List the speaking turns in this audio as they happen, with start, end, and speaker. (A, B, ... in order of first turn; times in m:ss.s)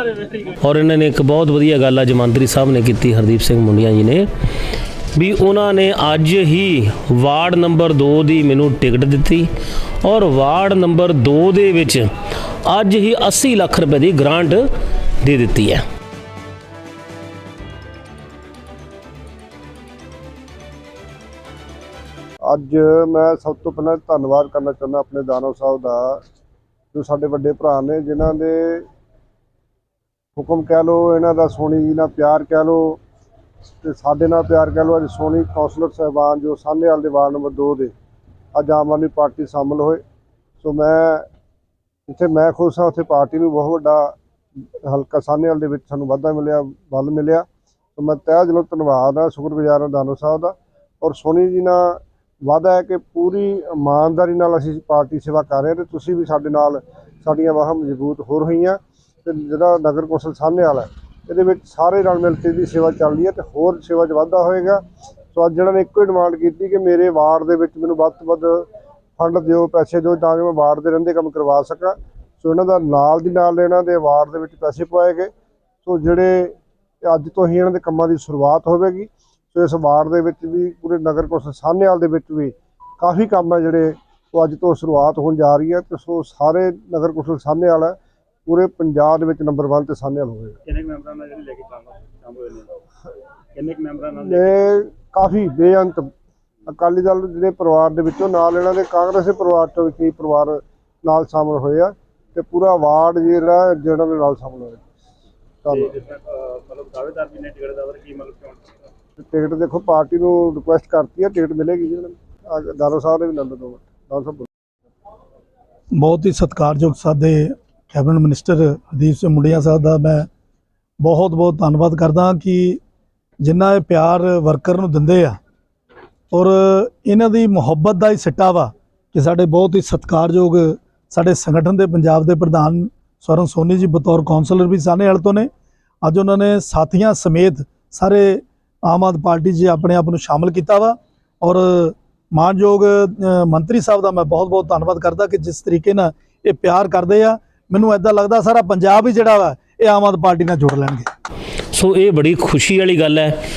0:00.6-0:04.3 A
0:05.2-0:09.5 A
0:10.0-0:12.1 A
0:12.6-0:14.7 A
0:15.2-0:15.8 A
0:22.5-0:26.2 B
0:26.9-0:28.9 B
0:30.4-0:33.0 B
0:33.8-0:37.9 B
0:38.6-0:40.0 B
0:40.6-0:41.3 B
0:42.1-0:44.2 B
0:44.8-1:04.8 B
1:05.3-1:08.6 B
1:09.2-1:15.3 B
1:15.8-1:30.6 B
1:30.7-1:32.8 C
1:33.6-1:34.5 C
1:34.2-1:36.1 B
1:36.7-1:44.8 B
1:45.6-1:45.9 B
1:45.7-1:48.8 C
1:49.2-1:54.5 B
1:56.0-2:00.3 D
2:01.0-2:02.8 D
2:03.4-2:05.4 D
2:06.3-2:15.5 D
2:16.0-2:31.1 D
2:31.7-2:33.3 A